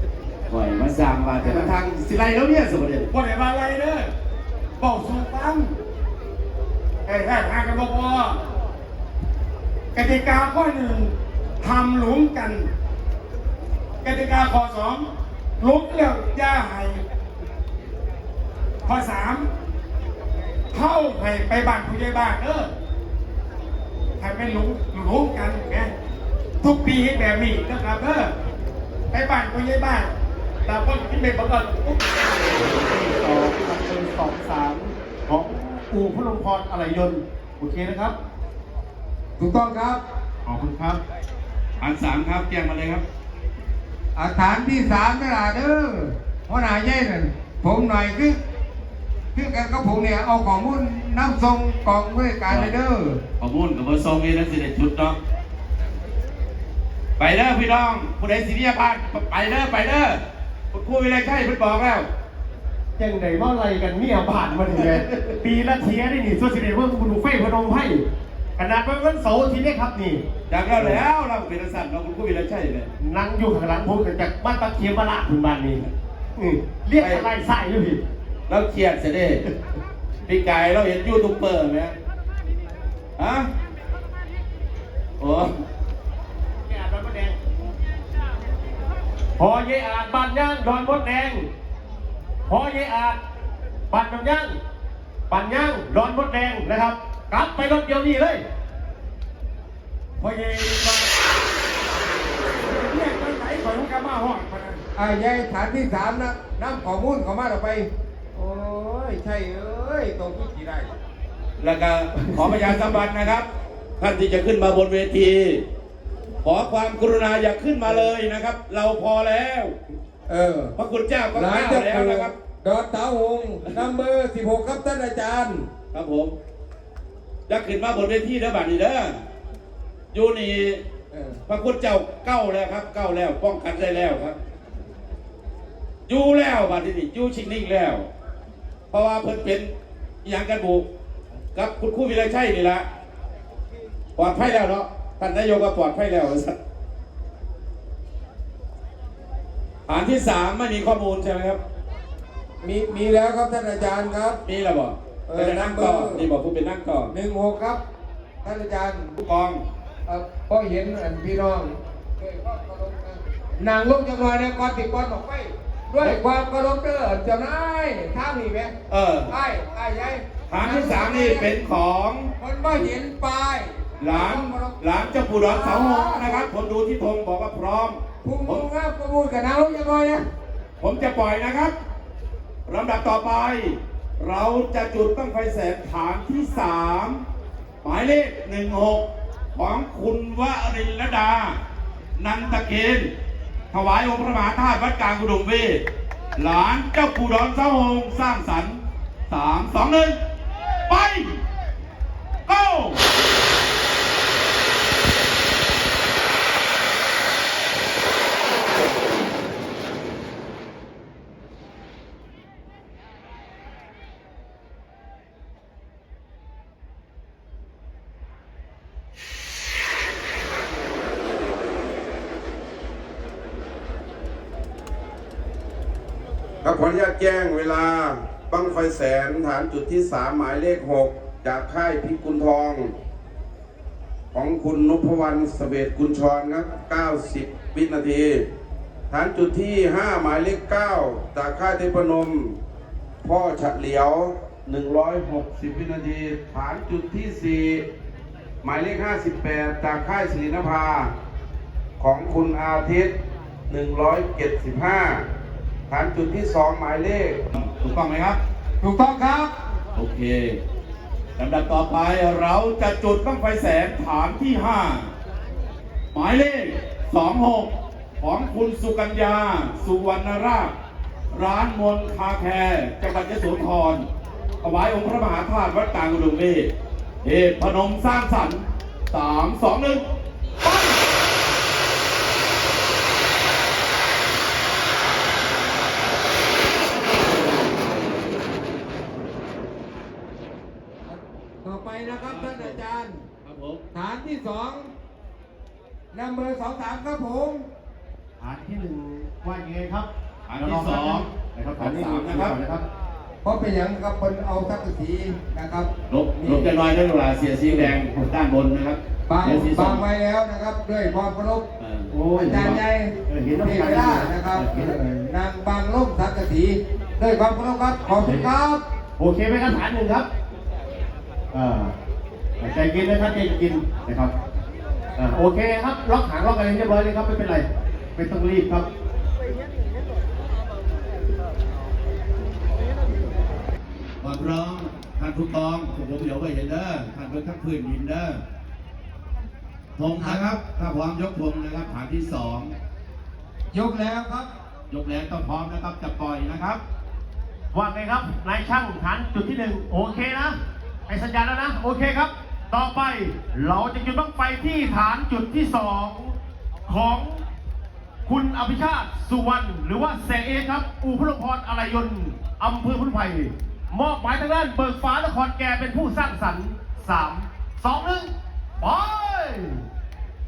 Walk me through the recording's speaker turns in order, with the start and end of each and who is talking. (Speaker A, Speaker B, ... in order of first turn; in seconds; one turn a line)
Speaker A: 0.5-3.1
Speaker B: 1.4-1.7
Speaker B: 3.1-4.1
Speaker B: 4.8-5.7
Speaker B: 7.0-8.4
Speaker B: 9.9-12.7
Speaker B: 14.0-15.1
Speaker B: 15.6-17.0
Speaker B: 18.9-19.4
Speaker B: 20.7-22.7
Speaker B: 24.2-25.9
Speaker B: 26.6-28.3
Speaker B: 29.1-30.1
Speaker B: 30.7-32.0
Speaker C: 32.1-38.1
Speaker D: 39.4-40.0
Speaker C: 40.4-41.0
Speaker A: 41.8-43.0
Speaker D: 44.1-48.4
Speaker D: 49.3-53.2
Speaker A: 52.5-52.7
Speaker A: 53.4-55.2
Speaker A: 57.2-60.2
Speaker A: 60.7-62.1
Speaker C: 63.0-68.0
Speaker A: 64.8-65.3
Speaker C: 68.6-71.0
Speaker A: 70.5-72.9
Speaker C: 73.0-78.0
Speaker A: 77.0-77.3
Speaker A: 78.5-79.5
Speaker A: 80.2-82.0
Speaker A: 83.2-83.5
Speaker A: 85.2-85.5
Speaker C: 86.6-87.4
Speaker C: 89.4-91.5
Speaker C: 92.5-93.2
Speaker C: 93.9-94.6
Speaker C: 95.3-98.4
Speaker B: 100.2-101.1
Speaker B: 102.5-104.8
Speaker D: 104.9-110.9
Speaker A: 111.6-113.5
Speaker A: 114.0-115.6
Speaker A: 116.4-119.7
Speaker D: 120.3-120.7
Speaker A: 120.8-122.3
Speaker D: 121.3-125.7
Speaker A: 125.9-126.3
Speaker A: 127.5-129.2
Speaker A: 130.1-130.8
Speaker D: 131.1-131.4
Speaker A: 131.4-134.4
Speaker A: 136.1-138.1
Speaker A: 138.9-139.7
Speaker A: 140.2-140.8
Speaker A: 141.5-142.8
Speaker A: 144.2-146.6
Speaker A: 149.9-151.6
Speaker D: 152.6-154.4
Speaker A: 154.4-157.1
Speaker D: 155.3-156.2
Speaker D: 157.1-157.8
Speaker D: 158.4-159.2
Speaker A: 159.2-159.6
Speaker D: 160.1-168.7
Speaker A: 168.9-169.3
Speaker D: 169.3-171.5
Speaker A: 170.5-172.3
Speaker D: 172.4-176.5
Speaker A: 174.0-178.7
Speaker D: 178.2-180.2
Speaker A: 180.8-181.7
Speaker A: 182.7-187.2
Speaker A: 187.8-189.0
Speaker A: 189.5-191.6
Speaker A: 192.2-193.1
Speaker A: 193.7-195.8
Speaker A: 196.4-200.2
Speaker A: 200.9-201.4
Speaker A: 202.5-203.0
Speaker E: 226.6-232.9
Speaker E: 234.3-238.4
Speaker E: 239.1-242.6
Speaker E: 243.2-247.8
Speaker E: 248.6-251.1
Speaker E: 252.0-253.1
Speaker E: 253.7-255.2
Speaker E: 255.9-257.4
Speaker A: 257.5-258.4
Speaker D: 258.8-259.5
Speaker A: 259.9-260.6
Speaker A: 261.4-265.1
Speaker A: 266.1-270.7
Speaker A: 271.3-274.1
Speaker A: 274.6-276.7
Speaker A: 277.2-280.0
Speaker D: 291.1-293.2
Speaker A: 292.1-292.8
Speaker A: 293.4-293.8
Speaker D: 293.9-294.9
Speaker D: 296.1-297.6
Speaker C: 298.4-302.8
Speaker A: 300.5-302.6
Speaker D: 303.4-306.7
Speaker A: 306.1-310.0
Speaker D: 309.3-311.6
Speaker A: 311.8-312.2
Speaker C: 312.1-314.9
Speaker D: 312.4-318.8
Speaker C: 318.2-318.5
Speaker C: 319.2-320.3
Speaker C: 321.5-321.9
Speaker C: 322.6-324.3
Speaker C: 325.1-328.9
Speaker A: 334.2-338.4
Speaker A: 340.0-342.7
Speaker D: 340.1-340.5
Speaker D: 343.7-344.5
Speaker A: 344.9-346.8
Speaker C: 347.7-350.6
Speaker C: 351.1-357.4
Speaker C: 358.2-369.8